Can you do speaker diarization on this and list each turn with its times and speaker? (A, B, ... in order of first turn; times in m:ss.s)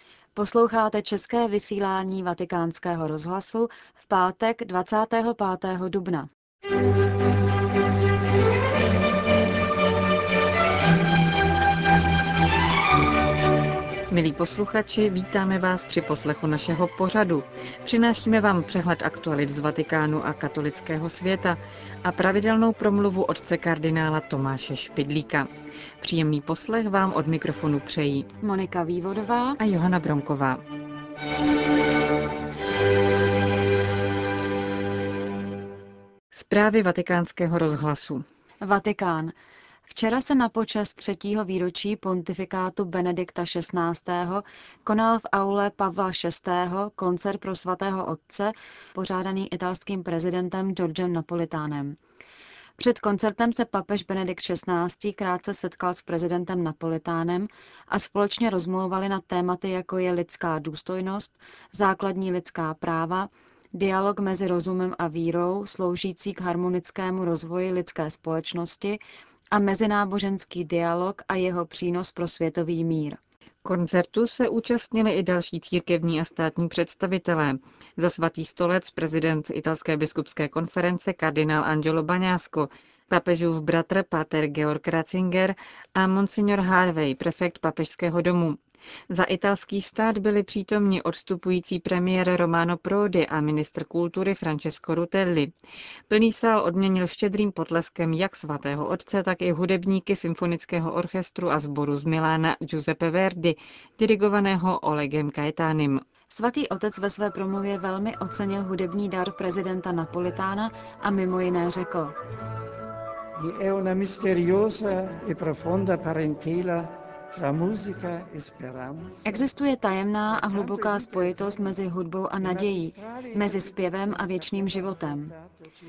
0:00.3-0:06.3 A
0:14.1-0:25.5 B
0:26.0-0:28.3 B
0:28.4-0:29.6 A
0:29.6-0:30.6 B
0:36.3-0:38.2 B
0:38.6-0:39.3 A
0:39.9-0:52.0 A
0:52.8-1:09.0 A
1:09.5-1:13.2 A
1:13.6-1:28.6 B
1:29.1-1:35.5 B
1:36.1-1:46.0 B
1:46.3-1:52.1 A
1:53.4-1:59.4 C
1:59.2-2:05.3 A
2:00.4-2:01.7 C
2:02.4-2:05.6 C